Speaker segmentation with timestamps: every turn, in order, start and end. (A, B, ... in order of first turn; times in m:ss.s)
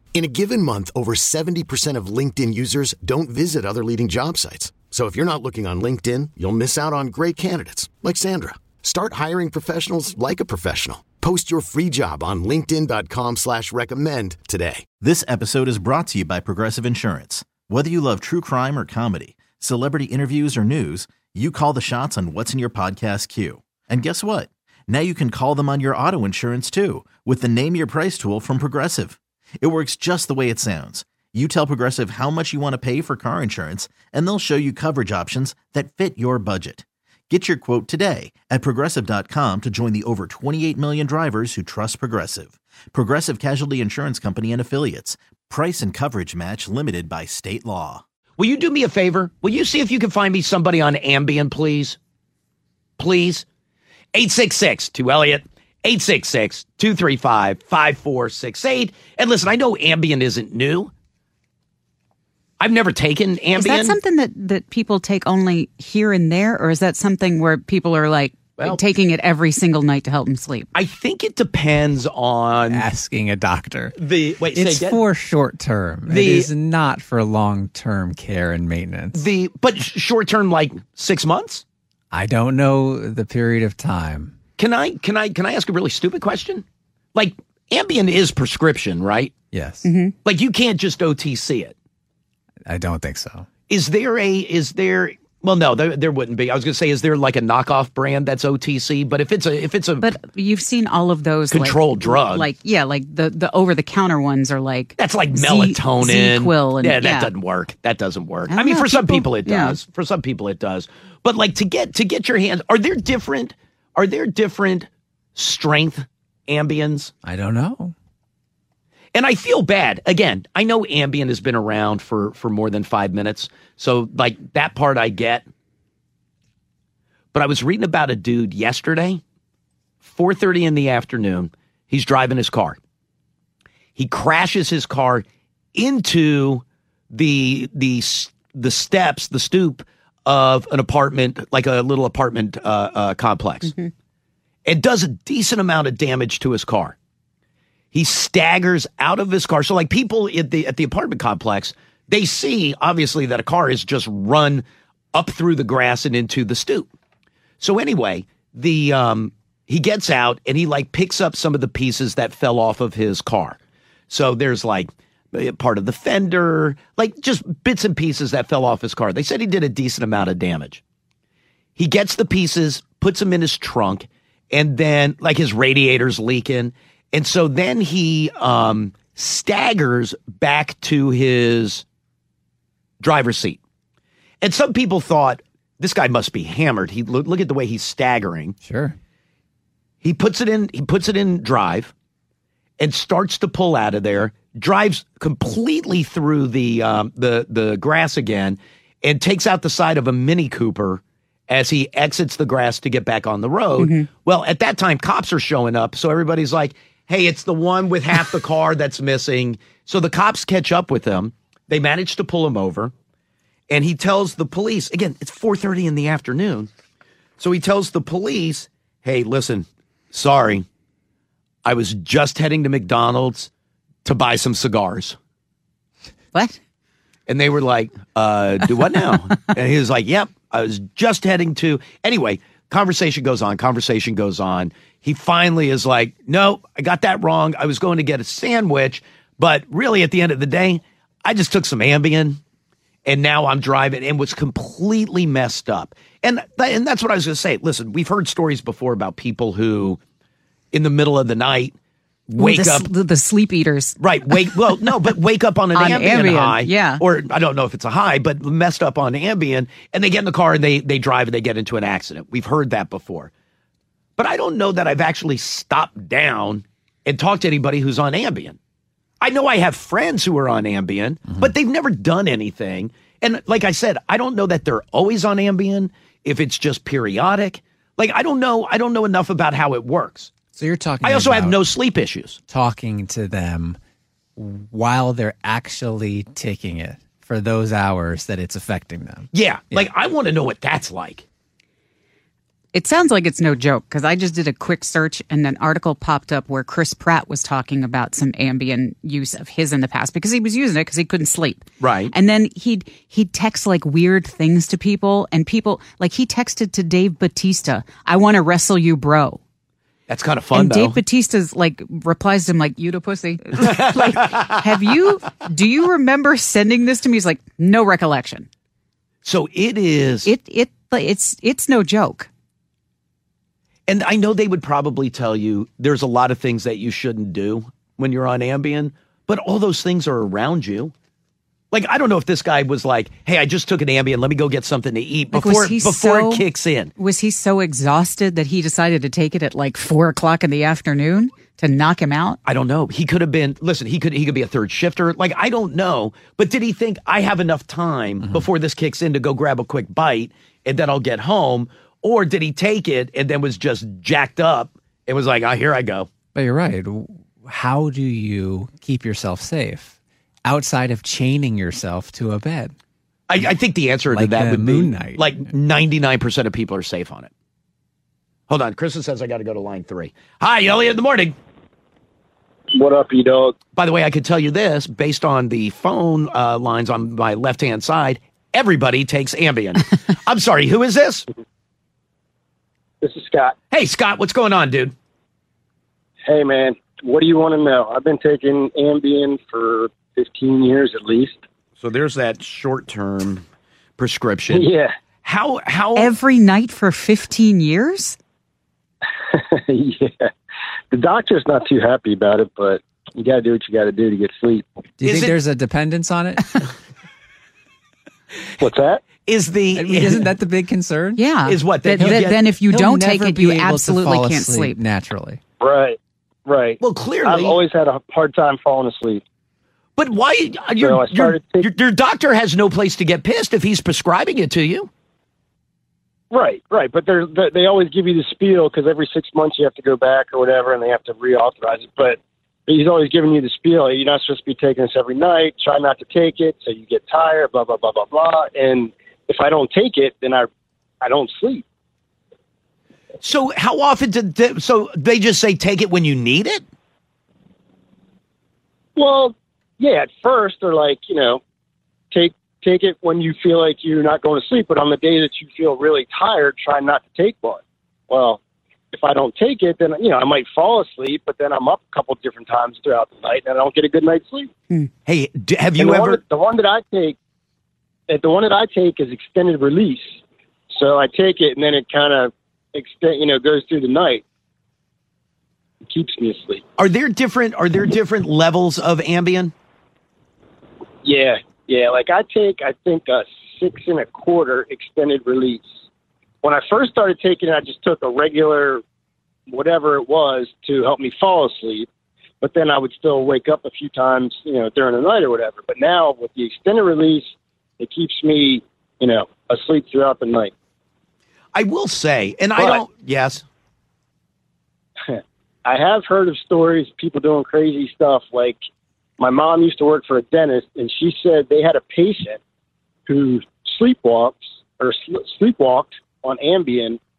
0:00.1-0:14.9 A
0:15.0-0:48.0 B
0:48.4-0:52.0 C
0:53.0-0:53.4 C
0:54.1-1:00.9 C
1:02.6-1:04.0 C
1:03.6-1:10.7 D
1:10.7-1:12.8 C
1:12.7-1:14.0 E
1:14.0-1:15.0 C
1:14.5-1:19.2 E
1:16.1-1:16.5 C
1:19.1-1:21.6 C
1:22.1-1:24.3 E
1:24.6-1:26.6 C
1:27.1-1:29.3 C
1:29.5-1:29.8 E
1:29.8-1:30.1 D
1:30.2-1:31.7 C
1:32.6-1:33.5 E
1:33.7-1:40.1 C
1:40.0-1:47.3 D
1:41.5-1:42.5 C
1:45.0-1:57.1 C
1:48.5-1:49.8 D
1:57.2-1:57.9 E
1:59.1-2:05.4 C
2:07.3-2:09.2 C
2:10.0-2:12.8 C
2:14.0-2:23.7 C
2:24.6-2:26.9 C
2:27.9-2:36.9 C
2:37.6-2:43.6 C
2:44.1-2:50.8 C
2:51.8-3:01.8 C
3:03.0-3:03.6 C
3:04.4-3:08.6 C
3:08.6-3:08.9 E
3:10.0-3:11.9 C
3:12.8-3:32.9 C
3:23.8-3:24.1 D
3:33.7-3:36.7 C
3:37.4-3:40.6 C
3:41.6-3:43.5 C
3:44.0-3:45.2 C
3:47.3-4:02.4 C
4:03.0-4:10.0 C
4:10.7-4:11.7 C
4:12.3-4:12.9 C
4:12.4-4:14.0 D
4:14.0-4:23.3 C
4:15.7-4:17.0 D
4:24.2-4:28.6 C
4:29.2-4:40.3 C
4:40.5-4:41.6 E
4:41.0-4:42.4 C
4:42.5-4:43.8 E
4:44.4-4:49.9 E
4:49.3-4:51.2 C
4:52.7-5:09.4 D
5:01.8-5:02.1 C
5:10.1-5:11.0 C
5:10.5-5:18.5 D
5:13.6-5:14.6 C
5:19.2-5:20.3 C
5:20.2-5:22.3 D
5:23.9-5:30.9 C
5:31.7-5:36.9 C
5:35.3-5:36.4 D
5:37.0-5:42.4 D
5:42.4-5:56.1 C
5:56.3-5:59.9 E
6:00.4-6:02.7 E
6:03.3-6:07.3 C
6:04.1-6:05.3 E
6:08.5-6:11.3 C
6:12.7-6:13.6 F
6:13.8-6:21.2 C
6:23.0-6:23.5 F
6:23.7-6:24.9 C
6:26.2-6:31.4 F
6:31.8-6:33.4 C
6:34.0-6:34.7 C
6:34.5-6:34.9 F
6:35.2-6:36.1 C
6:36.0-6:38.2 D
6:39.3-6:40.3 F
6:40.9-6:44.6 F
6:45.0-6:46.6 E
6:45.0-6:45.4 C
6:48.6-6:49.0 F
6:49.2-6:50.3 C
6:49.7-6:51.2 E
6:51.2-6:54.8 D
6:51.4-6:52.4 C
6:52.0-6:55.4 E
6:55.6-6:59.2 F
6:56.8-6:57.6 C
7:00.0-7:04.9 C
7:00.8-7:01.7 F
7:06.3-7:20.5 F
7:21.0-7:21.6 F
7:23.2-7:26.6 C
7:29.0-7:31.4 F
7:32.1-7:38.4 F
7:38.9-7:44.5 F
7:45.0-7:46.2 C
7:45.8-7:47.2 F
7:48.1-7:50.2 F
7:50.7-7:54.2 F
7:55.9-7:56.6 F
7:56.8-7:59.5 C
8:01.0-8:05.7 F
8:06.4-8:08.8 F
8:09.5-8:11.9 F
8:12.4-8:20.5 F
8:21.5-8:23.4 C
8:22.6-8:22.8 F
8:25.1-8:28.6 F
8:29.2-8:32.4 F
8:33.0-8:37.0 F